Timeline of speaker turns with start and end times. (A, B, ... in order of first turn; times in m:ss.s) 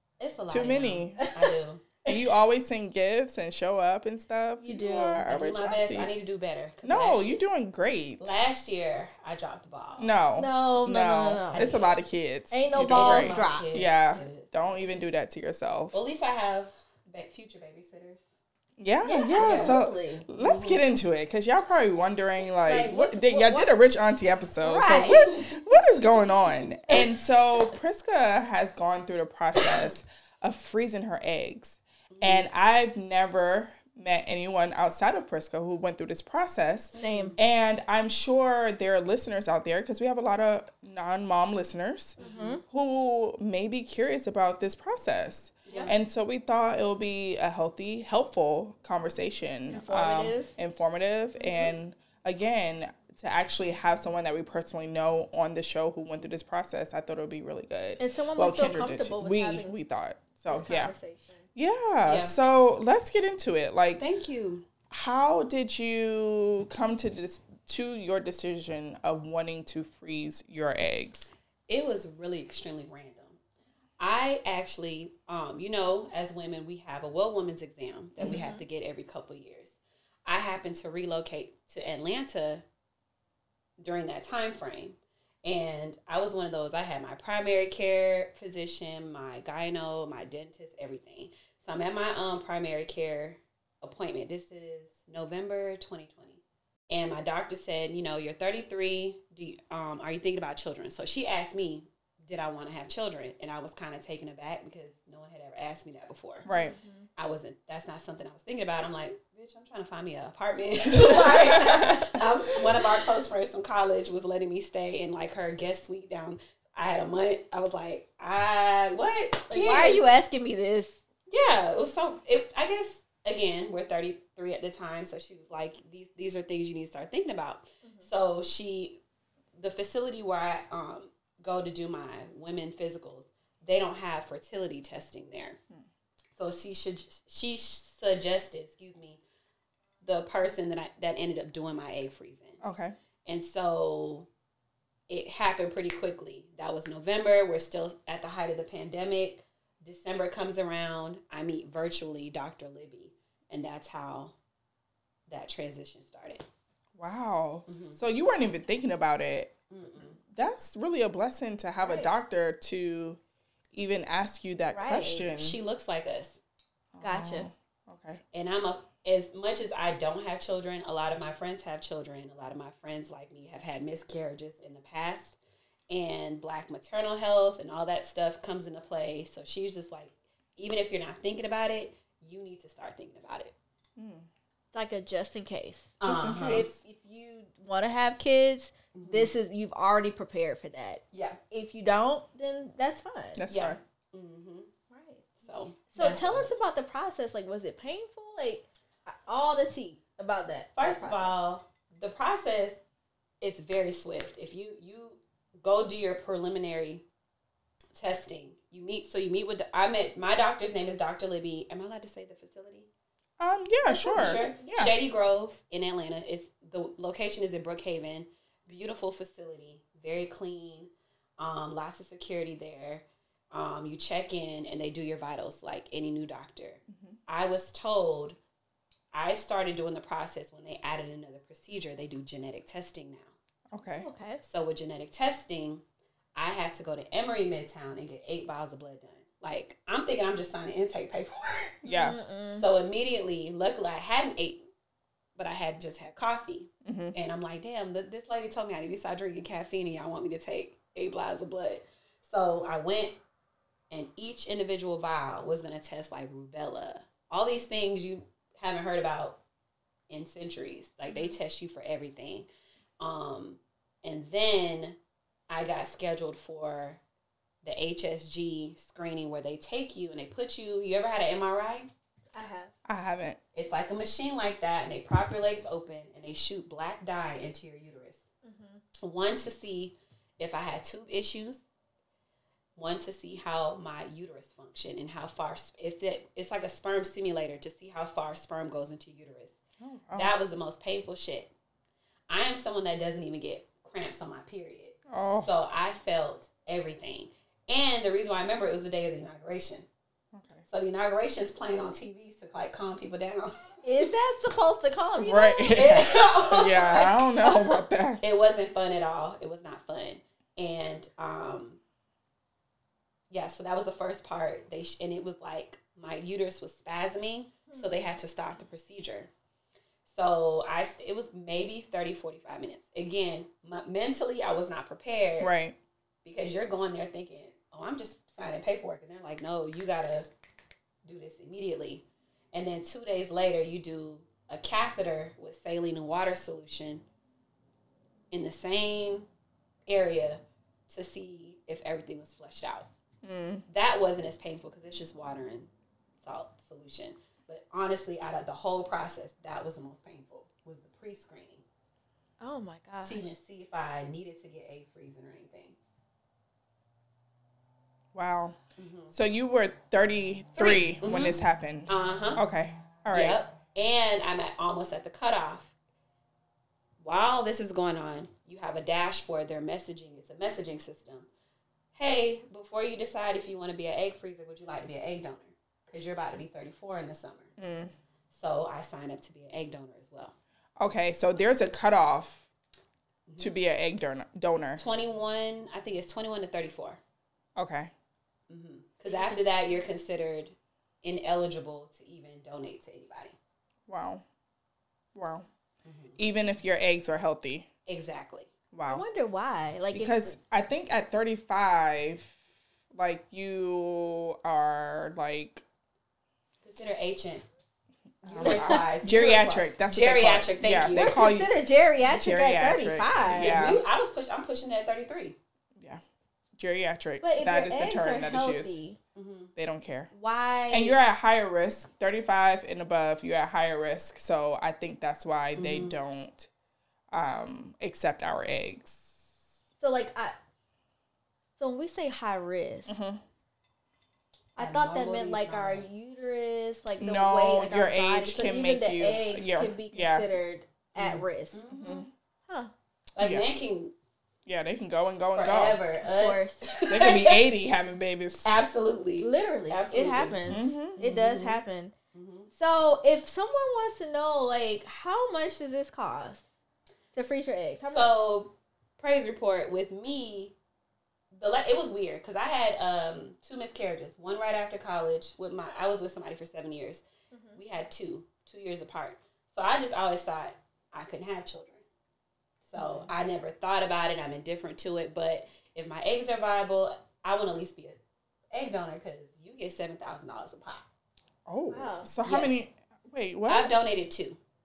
0:00.2-0:01.9 A
0:00.5-0:01.2 B
0:01.2-0:01.5 C
0:02.0-0:06.1 B
0:04.6-0:05.3 C
0:05.3-0:07.4 A
0:06.8-0:08.3 B
0:08.2-0:10.1 A
0:10.0-0:16.0 B
0:10.4-0:11.7 C
0:11.5-0:12.0 A
0:12.5-0:13.9 C
0:12.9-0:15.0 A
0:15.9-0:18.2 A
0:18.8-1:00.9 B
0:19.0-0:20.3 C
0:19.4-0:20.8 A
0:22.6-0:23.7 C
0:24.6-0:25.3 C
0:25.1-0:25.4 A
0:32.1-0:32.4 A
0:36.9-0:37.3 C
0:36.9-0:37.4 A
0:42.2-0:42.6 A
0:42.2-0:42.6 C
0:45.6-0:45.9 A
0:49.7-0:50.5 C
0:51.4-0:51.7 C
0:58.0-0:59.7 C
1:00.5-1:01.4 C
1:01.5-1:04.0 B
1:02.0-1:02.4 A
1:04.0-1:04.6 A
1:04.9-1:11.3 B
1:11.7-1:13.4 A
1:14.0-1:22.6 A
1:18.2-1:18.6 C
1:23.8-1:46.5 A
1:46.4-1:46.7 B
1:46.5-1:47.1 C
1:47.2-2:00.0 A
1:50.9-1:52.0 C
1:51.0-1:52.0 B
1:59.5-2:01.0 C
2:01.3-2:09.0 A
2:07.8-2:08.1 C
2:09.6-2:15.6 A
2:16.3-2:19.2 A
2:20.0-2:22.6 A
2:22.6-2:22.9 B
2:23.2-2:24.3 A
2:25.1-2:34.3 A
2:35.3-2:36.4 A
2:37.0-2:39.6 B
2:37.7-2:38.0 A
2:39.7-2:40.2 A
2:40.2-2:43.2 B
2:41.8-2:42.1 C
2:43.7-2:45.6 B
2:44.7-2:45.3 C
2:45.3-2:46.4 A
2:46.9-2:48.2 B
2:47.0-2:47.5 C
2:48.3-2:55.4 A
2:55.9-3:03.5 A
3:04.0-3:04.2 B
3:04.7-3:13.4 C
3:06.0-3:06.7 A
3:06.1-3:06.7 B
3:08.9-3:09.3 A
3:11.1-3:11.4 A
3:13.4-3:13.8 B
3:13.5-3:14.7 A
3:14.9-3:15.4 C
3:15.4-3:16.5 A
3:15.9-3:21.4 C
3:20.7-3:22.8 A
3:23.4-3:27.0 A
3:27.9-3:32.9 A
3:33.4-3:34.9 B
3:33.8-3:34.4 C
3:34.1-3:48.4 A
3:46.9-3:47.2 B
3:49.1-3:53.3 A
3:53.7-3:54.1 B
3:54.0-3:54.4 C
3:54.4-3:55.8 A
3:56.3-4:01.8 A
4:01.8-4:02.2 B
4:01.9-4:02.6 C
4:02.5-4:04.6 A
4:05.4-4:13.2 A
4:06.8-4:07.2 B
4:13.9-4:19.4 A
4:20.1-4:22.5 A
4:23.0-4:25.0 A
4:25.5-4:27.0 A
4:27.6-4:31.9 A
4:32.3-4:32.7 C
4:32.8-4:33.4 B
4:33.5-4:38.2 A
4:38.4-4:38.8 C
4:39.0-4:41.6 A
4:42.8-4:49.6 A
4:49.8-4:50.3 B
4:50.1-4:51.5 A
4:52.3-4:59.9 A
4:55.1-4:55.5 B
5:00.3-5:00.6 B
5:00.7-5:03.7 A
5:03.8-5:06.1 C
5:05.2-5:08.2 B
5:05.7-5:07.1 A
5:06.9-5:07.6 C
5:08.2-5:11.8 A
5:13.3-5:19.3 A
5:20.0-5:25.5 A
5:25.4-5:25.8 B
5:26.2-5:30.3 A
5:31.0-5:37.0 A
5:38.3-5:39.3 A
5:39.9-5:42.9 A
5:43.2-5:43.6 B
5:43.7-5:51.6 A
5:52.4-5:53.3 C
5:53.0-5:55.8 A
5:58.1-5:58.6 B
5:58.8-5:59.1 A
5:59.1-6:03.4 B
6:00.6-6:02.4 A
6:03.1-6:05.7 A
6:07.0-6:11.3 A
6:11.9-6:17.5 A
6:17.6-6:17.9 B
6:18.3-6:20.3 A
6:20.8-6:22.5 B
6:23.3-6:23.6 A
6:23.4-6:24.8 B
6:24.8-6:27.0 A
6:27.6-6:27.9 B
6:28.5-6:33.3 A
6:29.0-6:29.7 C
6:33.9-6:34.2 B
6:35.1-6:35.4 B
6:35.8-6:36.2 A
6:36.2-6:37.6 B
6:37.8-6:38.5 A
6:38.7-6:39.0 B
6:38.8-6:40.3 C
6:39.9-6:42.4 B
6:42.9-6:45.6 B
6:46.6-6:47.4 A
6:48.2-6:53.8 B
6:48.3-6:51.2 A
6:48.4-6:48.8 C
6:50.9-6:53.7 C
6:53.4-6:55.4 A
6:56.6-6:58.8 B
6:57.2-6:59.0 C
6:59.1-6:59.5 A
6:59.6-7:00.1 B
7:00.1-7:01.0 C
7:00.7-7:06.5 B
7:05.6-7:06.0 A
7:07.1-7:09.6 B
7:09.8-7:10.3 C
7:11.6-7:12.9 C
7:12.9-7:13.2 B
7:14.6-7:21.6 C
7:14.6-7:15.8 A
7:17.0-7:20.3 B
7:21.0-7:22.1 A
7:21.7-7:22.1 B
7:23.2-7:23.9 A
7:24.4-7:25.8 B
7:25.3-7:27.4 A
7:26.0-7:26.7 C
7:26.9-7:28.5 B
7:28.4-7:30.4 A
7:29.2-7:31.9 C
7:30.5-7:31.0 B
7:31.0-7:31.6 A
7:32.1-7:32.5 A
7:32.5-7:36.4 C
7:37.1-7:38.2 C
7:37.9-7:40.5 A
7:41.3-7:51.8 A
7:47.3-7:47.6 C
7:52.6-7:58.0 A
7:52.8-7:53.0 B
7:58.5-8:00.8 A
8:01.4-8:03.7 B
8:01.7-8:02.1 C
8:02.2-8:02.6 A
8:03.5-8:04.4 A